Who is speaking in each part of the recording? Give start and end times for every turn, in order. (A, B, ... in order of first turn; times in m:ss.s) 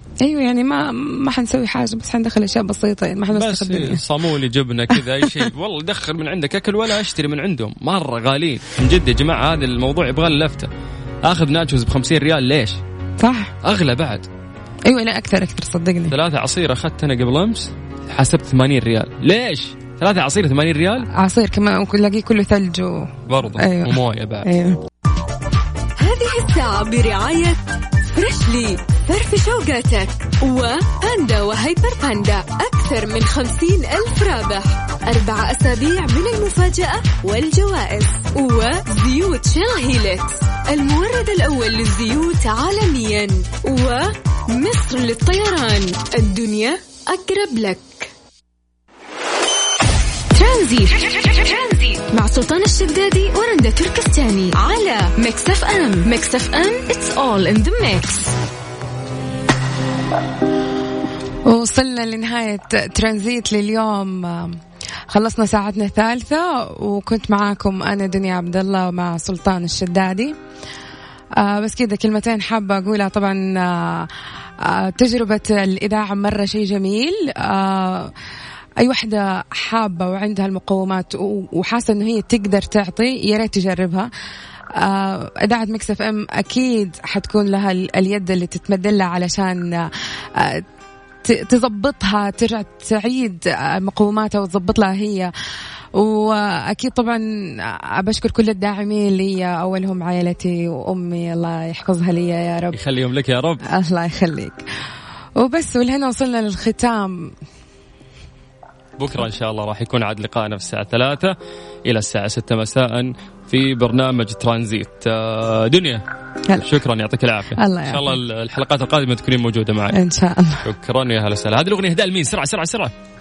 0:00.2-0:04.0 A
0:03.3-0:10.7 B
0:11.2-0:12.8 B
0:13.2-0:13.5 A
0:13.6-0:14.3 B
0:14.9-0:16.1 A
0:16.1-0:21.0 B
0:21.2-0:24.8 A
0:23.3-0:24.5 B
0:26.0-0:48.1 C
0:50.3-0:58.3 C
1:01.4-1:10.3 A
1:11.4-1:18.1 A
1:18.8-1:24.1 A
1:24.8-1:30.6 A
1:31.2-1:35.3 A
1:36.0-1:42.8 A
1:42.7-1:43.6 B
1:43.7-1:44.6 A
1:45.4-1:47.3 A
1:49.0-1:51.3 B
1:51.8-1:56.0 B
1:56.6-2:00.0 B
1:57.6-1:58.1 A
1:59.9-2:00.6 A
2:00.6-2:02.9 B